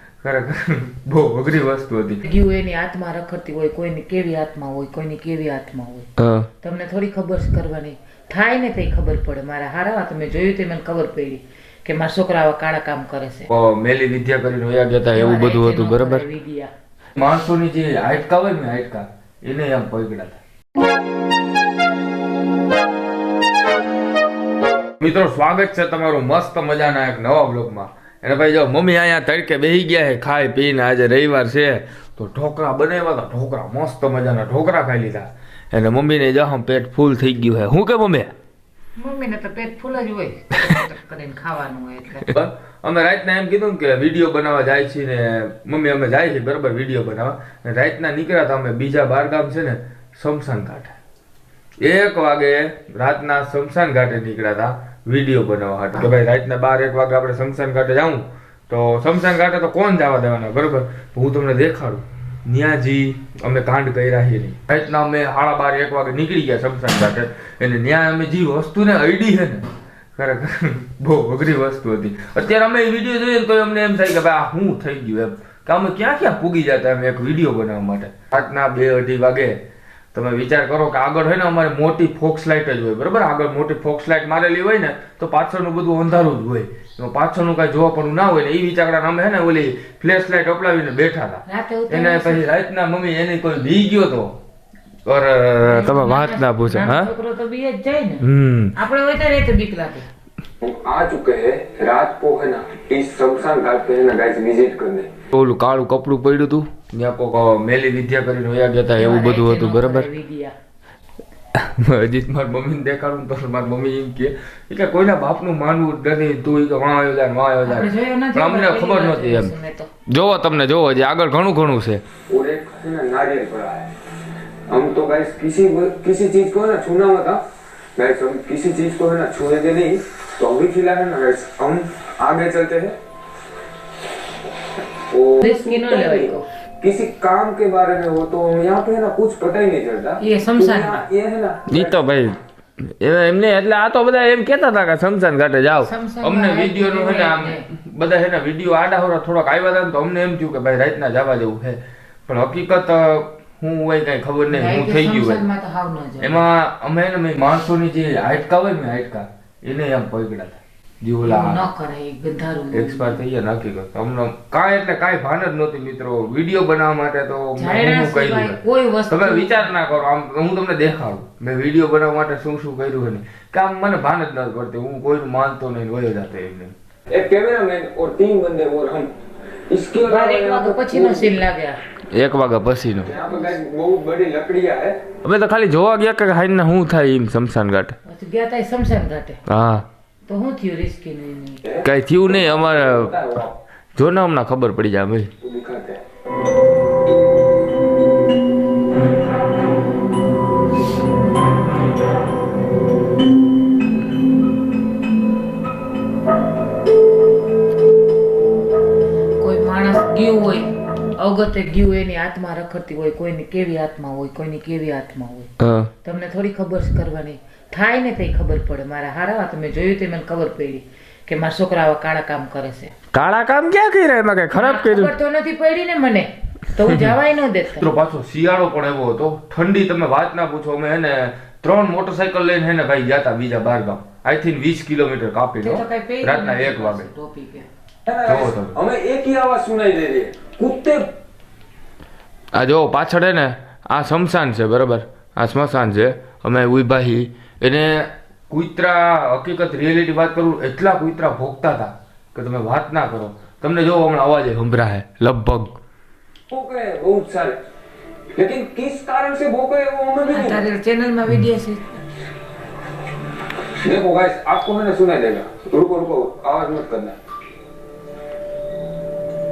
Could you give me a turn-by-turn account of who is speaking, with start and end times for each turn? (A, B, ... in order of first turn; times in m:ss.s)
0:00.2-0:02.2 A
0:02.2-0:06.1 B
0:06.2-0:06.5 A
0:06.6-0:13.5 B
0:13.5-0:16.2 A
0:15.1-0:16.7 B
0:17.2-0:20.4 A
0:25.0-0:38.3 A
0:39.0-0:42.3 B
0:42.2-0:51.0 A
0:51.8-1:19.6 A
1:20.1-1:34.4 A
1:31.5-1:32.5 B
1:35.1-1:37.1 A
1:35.6-1:38.2 B
1:38.2-1:38.7 A
1:38.7-1:40.1 B
1:40.6-1:45.1 C
1:45.3-1:50.1 A
1:49.0-1:50.5 B
1:51.6-1:59.5 A
1:57.6-1:59.9 B
2:00.1-2:02.0 A
2:02.3-2:03.9 C
2:04.7-2:07.4 C
2:08.0-2:13.0 C
2:15.0-2:22.0 C
2:15.4-2:16.5 B
2:20.2-2:21.0 B
2:21.7-2:35.4 A
2:25.8-2:27.6 B
2:34.5-2:36.4 B
2:36.2-2:41.6 A
2:41.2-2:43.2 B
2:42.7-2:56.7 A
2:47.6-2:49.8 B
2:57.1-2:59.1 C
2:59.7-3:01.4 C
3:00.0-3:01.8 B
3:02.1-3:03.1 A
3:03.0-3:05.0 C
3:03.2-3:03.4 B
3:05.2-3:08.0 A
3:08.0-3:09.4 B
3:09.5-3:09.9 A
3:10.3-3:11.6 B
3:11.6-3:13.5 C
3:11.8-3:13.1 A
3:14.0-3:15.3 A
3:15.4-3:16.0 C
3:29.4-3:35.5 B
3:35.6-3:35.9 A
3:36.0-3:42.9 B
3:43.1-3:45.1 A
3:44.5-3:47.9 B
3:46.8-3:47.1 A
3:47.8-3:57.1 A
3:55.6-3:57.7 B
3:58.0-4:01.1 C
3:58.3-3:58.7 A
4:02.5-4:15.8 A
4:16.5-4:17.6 C
4:18.3-4:20.6 C
4:20.3-4:22.0 B
4:23.8-4:27.2 C